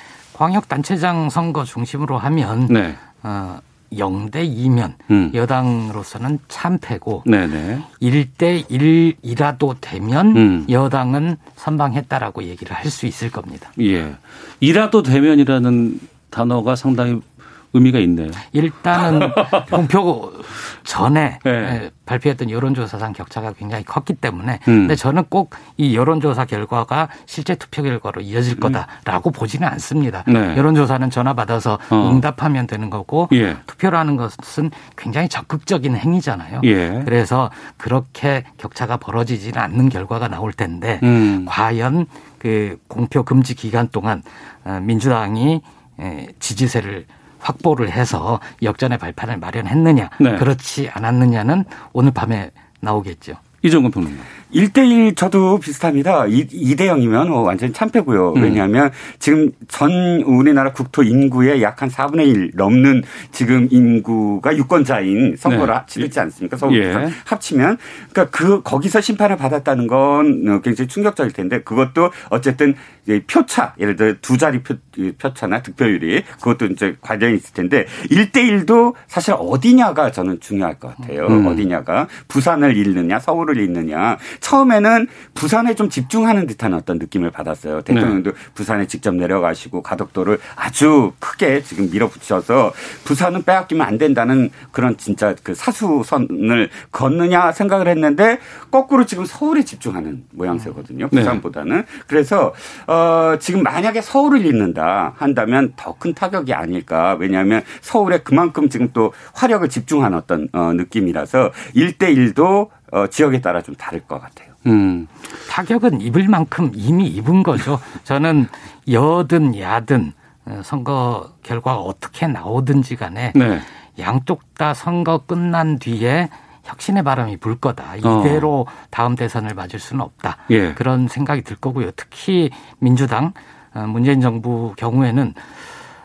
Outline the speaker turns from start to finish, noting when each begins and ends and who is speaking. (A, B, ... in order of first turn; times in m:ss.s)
0:00.3-0:07.3 A
0:02.7-0:03.0 B
0:05.1-0:05.4 B
0:07.2-0:07.8 B
0:07.9-0:13.7 A
0:10.3-0:10.7 B
0:13.8-0:19.8 B
0:18.5-0:53.4 A
0:21.4-0:21.8 B
0:24.7-0:25.0 B
0:30.3-0:30.6 B
0:31.9-0:32.2 B
0:33.3-0:33.6 B
0:36.6-0:37.1 B
0:41.0-0:41.5 B
0:50.2-0:50.5 B
0:53.6-0:54.3 B
0:54.5-1:54.5 C
0:58.3-0:58.6 B
1:05.4-1:06.1 B
1:06.6-1:07.1 B
1:21.3-1:21.7 B
1:27.9-1:28.2 B
1:41.1-1:41.4 B
1:54.6-1:55.1 B
1:55.5-2:03.4 A
2:03.3-2:03.6 B
2:04.0-2:15.5 A
2:08.0-2:08.5 B
2:10.5-2:10.8 B